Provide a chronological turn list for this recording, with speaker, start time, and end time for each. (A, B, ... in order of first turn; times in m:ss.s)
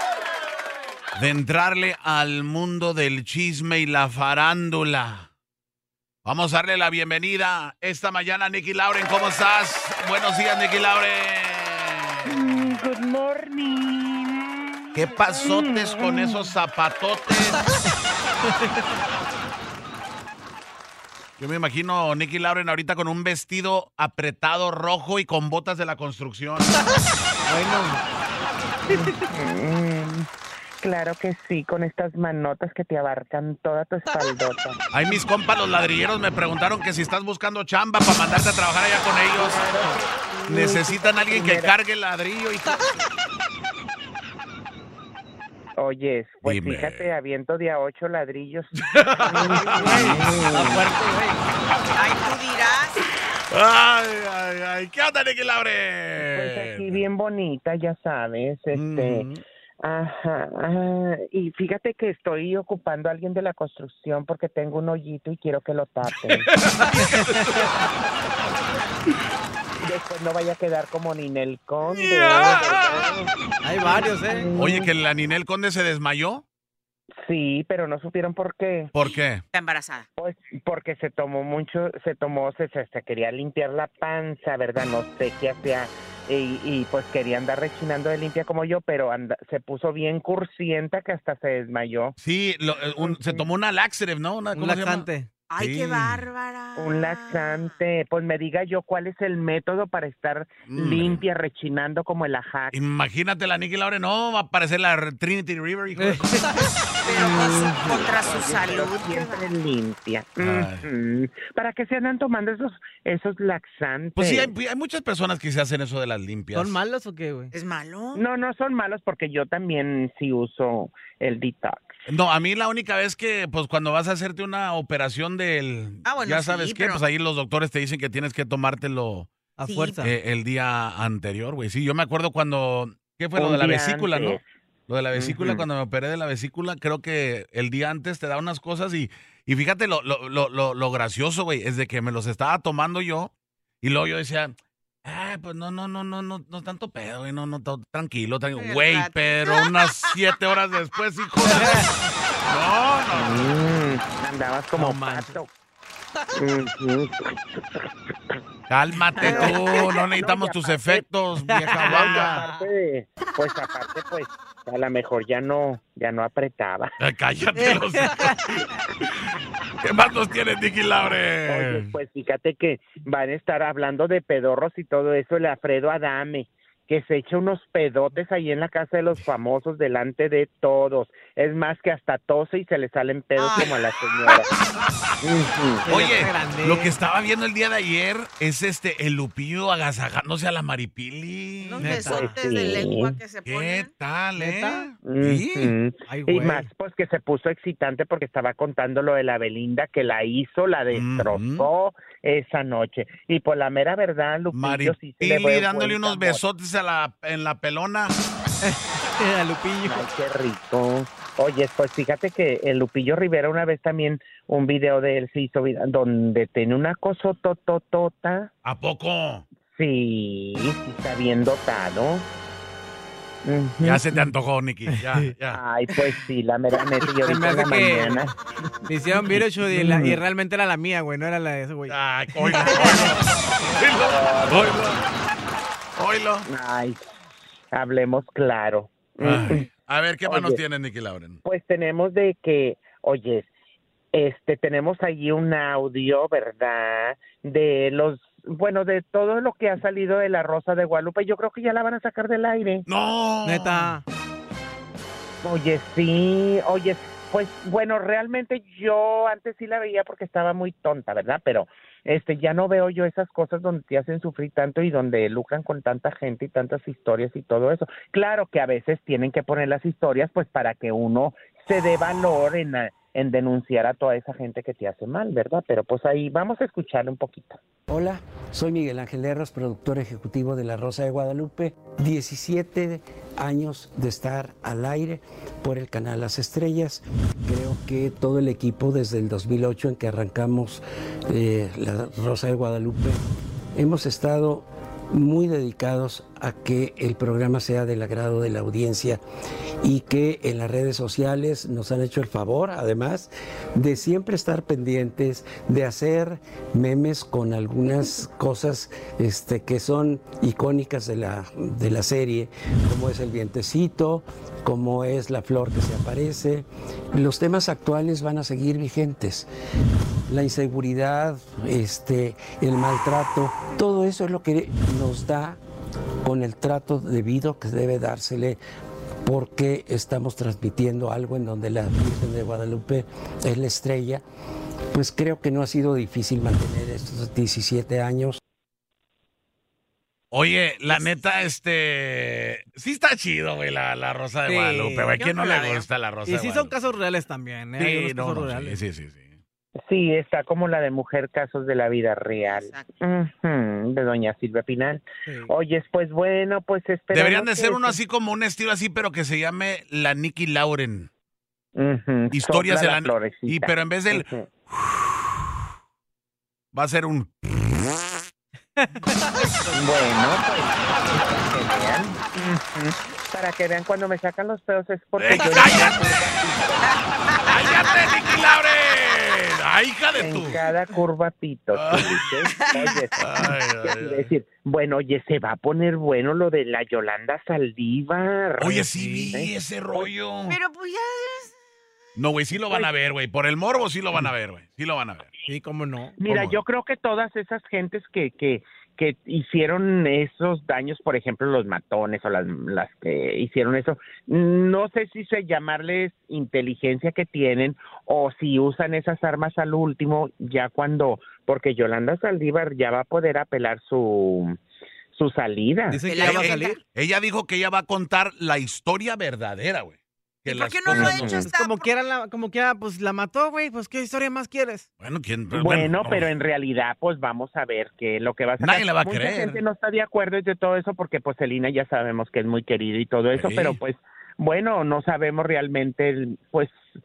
0:01.1-0:05.3 A
0:06.2-0:12.8 A
0:12.2-0:16.4 B
0:14.9-0:17.6 A
0:18.4-0:18.9 C
0:21.4-0:26.7 A
0:27.5-0:28.0 C
0:28.9-0:29.2 C
0:28.9-0:30.3 B
0:30.8-0:34.8 B
0:34.9-0:39.6 A
0:39.4-0:41.7 B
0:40.5-0:43.0 A
0:45.8-0:48.7 B
0:46.4-0:47.1 A
0:48.8-0:50.4 A
0:49.2-0:50.9 B
0:49.3-0:51.4 C
0:51.7-0:52.0 A
0:51.9-0:53.0 D
0:53.0-0:57.0 A
0:56.3-0:59.3 B
0:58.7-0:59.4 A
0:59.8-1:06.5 B
1:06.1-1:07.9 A
1:07.0-1:07.4 C
1:09.8-1:14.9 B
1:11.8-1:13.0 A
1:13.6-1:14.5 C
1:14.5-1:16.4 A
1:17.2-1:18.9 B
1:18.9-1:19.4 A
1:19.0-1:20.1 D
1:20.2-1:32.2 B
1:32.2-1:35.1 A
1:33.0-1:33.5 B
1:34.5-1:35.3 C
1:35.5-1:37.8 D
1:35.6-1:36.3 A
1:36.8-1:42.7 B
1:40.7-1:41.2 A
1:42.7-1:46.8 A
1:45.9-1:46.7 C
1:47.0-1:49.4 D
1:47.0-1:54.5 B
1:50.4-1:50.9 A
1:54.2-1:56.8 A
1:56.5-1:57.5 C
1:57.5-1:58.2 D
1:58.1-2:01.8 B
2:02.1-2:09.3 A
2:06.0-2:07.0 D
2:09.6-2:10.1 C
2:09.6-2:10.0 D
2:10.0-2:33.4 A
2:13.3-2:14.4 B
2:15.1-2:15.6 B
2:28.5-2:30.4 D
2:31.4-2:32.1 C
2:33.1-2:35.5 B
2:34.7-2:35.4 C
2:36.4-2:37.8 B
2:38.7-2:42.4 A
2:39.2-2:39.9 D
2:39.2-2:41.1 B
2:39.2-2:39.6 C
2:41.5-2:42.7 C
2:41.7-2:46.9 B
2:47.0-2:48.6 A
2:47.6-2:48.4 C
2:49.8-2:51.9 A
2:51.4-3:04.5 B
3:03.4-3:03.7 D
3:04.2-3:05.1 A
3:05.2-3:05.9 B
3:05.8-3:06.9 C
3:05.8-3:12.3 A
3:11.6-3:13.9 D
3:11.8-3:12.4 C
3:12.2-3:13.2 B
3:13.4-3:15.7 A
3:14.3-3:14.8 C
3:15.0-3:26.4 B
3:16.1-3:16.7 C
3:20.9-3:21.7 A
3:24.5-3:28.1 A
3:28.6-3:30.0 C
3:29.8-3:38.5 B
3:38.6-3:39.4 A
3:39.7-3:42.2 B
3:43.4-3:44.3 B
3:43.8-3:45.6 A
3:44.9-3:45.3 C
3:45.5-3:48.3 B
3:47.0-3:48.3 C
3:48.8-3:53.1 C
3:49.1-3:50.2 B
3:51.9-3:55.0 A
3:52.6-3:55.0 B
3:56.0-3:56.5 A
3:56.5-3:57.0 B
3:57.7-3:59.7 B
3:59.2-4:01.4 A
4:00.2-4:00.6 B
4:01.4-4:03.5 B
4:04.1-4:12.9 B
4:12.9-4:13.9 A
4:13.4-4:14.0 C
4:15.4-4:37.6 B
4:37.9-4:53.2 E
4:53.8-4:59.2 E
4:59.8-5:19.5 E
5:20.3-5:25.6 E
5:26.2-5:28.6 E
5:29.2-5:34.2 E
5:34.9-5:38.4 E
5:40.3-5:46.8 A
5:44.4-5:45.2 C
5:45.1-5:45.9 D
5:46.2-5:48.8 C
5:47.8-5:49.3 A
5:49.8-5:58.0 B
5:52.4-5:52.9 D
5:57.1-6:01.1 A
6:01.8-6:04.5 B
6:02.3-6:04.2 A
6:06.7-6:07.9 A
6:08.8-6:09.8 C
6:09.7-6:16.9 B
6:15.2-6:16.4 A
6:17.4-6:20.6 A
6:20.1-6:30.1 B
6:21.7-6:24.3 A
6:22.5-6:23.1 D
6:28.6-6:30.6 A
6:28.9-6:29.3 C
6:30.5-6:31.5 D
6:32.2-6:35.3 A
6:35.4-6:36.2 C
6:36.2-6:54.6 B
6:36.3-6:36.6 A
6:55.1-6:56.0 B
6:55.9-6:56.8 C
6:56.0-6:56.8 D
6:56.2-7:01.4 A
7:00.4-7:01.9 D
7:00.9-7:01.5 B
7:01.4-7:04.8 C
7:05.0-7:06.3 A
7:05.5-7:16.8 B
7:08.6-7:09.6 A
7:13.3-7:13.8 A